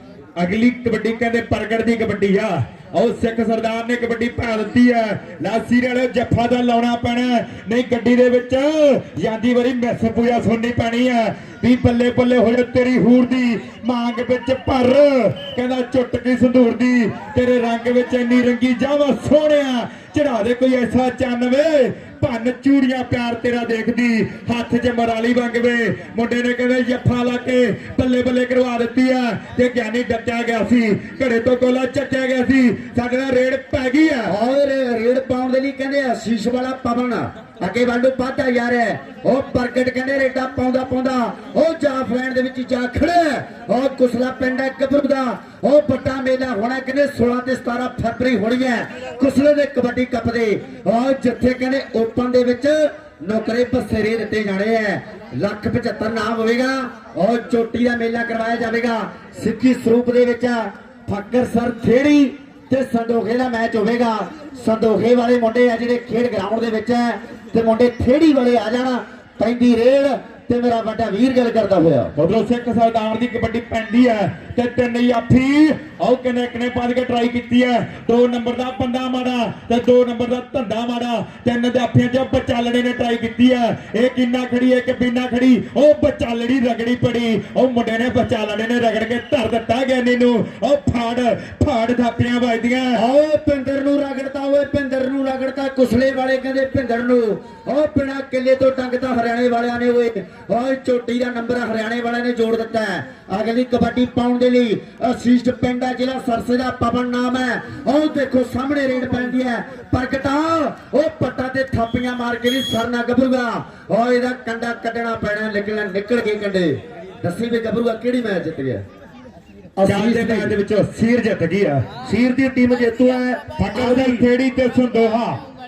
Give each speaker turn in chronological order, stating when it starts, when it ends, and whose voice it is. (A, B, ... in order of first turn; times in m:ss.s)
0:00.4-0:34.3 A
0:34.3-1:12.1 B
1:12.2-1:33.0 A
1:33.0-1:58.8 B
1:59.8-2:00.6 B
1:59.9-2:01.9 A
2:02.0-2:04.3 C
2:03.6-2:05.4 A